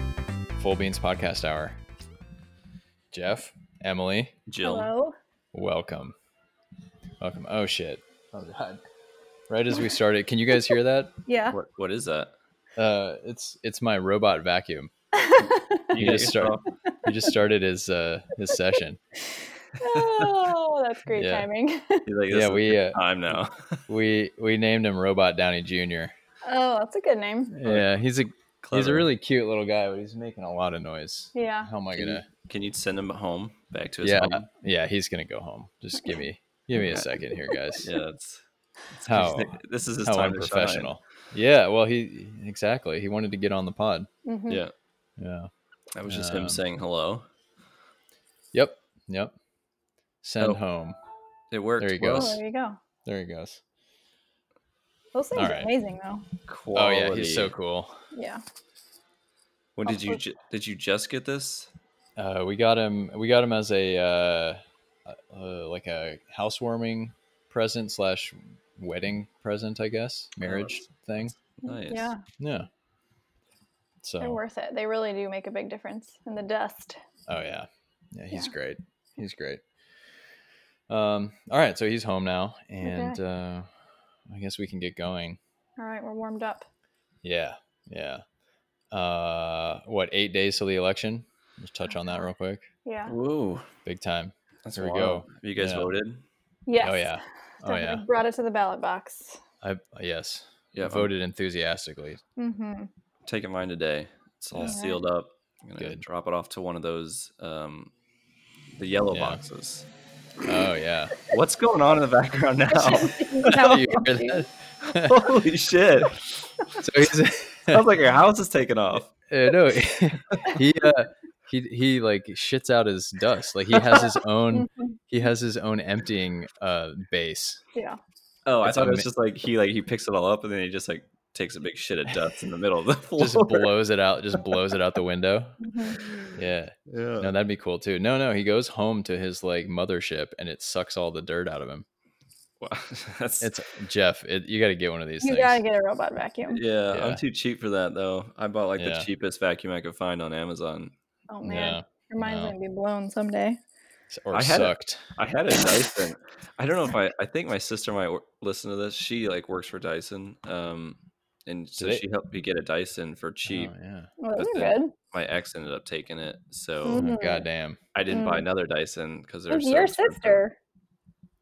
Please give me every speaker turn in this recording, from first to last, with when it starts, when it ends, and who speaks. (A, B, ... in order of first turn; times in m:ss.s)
0:00.6-0:01.8 A
0:03.1-0:04.4 A
0:04.5-0:04.9 B
0:04.6-0:05.2 C
0:05.5-0:06.2 A
0:07.2-0:08.8 A
0:09.5-0:11.1 A
0:11.3-0:11.6 C
0:11.5-0:12.3 B
0:12.8-0:14.9 A
0:15.1-0:15.9 C
0:15.9-0:16.6 B
0:16.0-0:19.0 A
0:16.9-0:17.3 C
0:19.8-0:22.1 C
0:21.2-0:21.5 A
0:22.1-0:23.8 B
0:22.3-0:23.4 A
0:23.9-0:26.1 A
0:26.4-0:27.6 C
0:27.6-0:32.2 A
0:28.6-0:29.1 B
0:31.4-0:31.7 C
0:32.0-0:34.5 B
0:34.0-0:37.9 A
0:36.8-0:37.1 B
0:37.5-0:37.8 C
0:37.8-0:40.9 B
0:39.1-0:44.1 A
0:44.3-0:44.6 C
0:45.2-0:45.5 A
0:46.0-0:47.2 B
0:46.1-0:46.6 A
0:48.5-0:49.3 A
0:50.2-0:51.0 A
0:51.5-0:52.4 B
0:51.8-0:52.4 A
0:52.2-0:52.8 C
0:53.1-0:53.6 A
0:55.2-0:56.2 C
0:55.4-0:55.7 A
0:56.5-0:57.5 B
0:56.7-0:57.9 A
0:58.1-0:58.4 C
0:59.8-1:01.7 B
0:59.9-1:00.2 C
1:02.2-1:11.4 A
1:10.4-1:10.9 B
1:11.5-1:12.1 B
1:11.6-1:12.2 C
1:12.4-1:12.7 A
1:14.0-1:14.4 A
1:14.2-1:17.0 C
1:17.3-1:19.6 A
1:20.9-1:23.7 A
1:22.8-1:23.2 C
1:24.3-1:25.4 A
1:25.8-1:26.7 C
1:27.2-1:28.2 A
1:28.9-1:32.7 A
1:32.9-1:33.2 C
1:33.1-1:33.7 B
1:33.8-1:35.9 A
1:34.6-1:36.2 B
1:36.7-1:39.4 C
1:36.8-1:38.0 A
1:39.6-1:42.2 A
1:40.7-1:41.1 B
1:42.4-1:42.9 C
1:43.2-1:47.9 B
1:44.6-1:45.0 C
1:45.8-1:46.0 A
1:48.8-1:49.9 B
1:49.1-1:49.4 A
1:50.4-1:51.2 A
1:51.3-1:53.5 B
1:52.7-1:54.5 C
1:53.5-1:55.3 A
1:54.9-1:56.8 B
1:56.8-1:57.8 A
1:57.7-1:59.1 B
1:59.3-2:07.6 A
2:00.3-2:00.6 B
2:03.9-2:05.0 C
2:08.5-2:13.7 B
2:08.6-2:09.1 A
2:13.2-2:15.6 A
2:15.6-2:16.0 C
2:16.0-2:17.3 B
2:16.4-2:21.9 A
2:22.6-2:23.5 B
2:23.4-2:25.6 A
2:25.2-2:26.6 C
2:26.5-2:30.9 B
2:26.9-2:27.2 A
2:28.8-2:29.1 A
2:31.3-2:33.6 C
2:31.4-2:32.6 A
2:34.1-2:35.2 A
2:34.3-2:43.7 B
2:41.8-2:42.0 A
2:43.5-2:44.1 A
2:44.2-2:44.9 C
2:44.4-2:47.1 B
2:46.8-2:47.5 C
2:46.9-2:47.8 A
2:47.9-2:50.4 B
2:48.1-2:48.5 C
2:49.5-2:50.6 C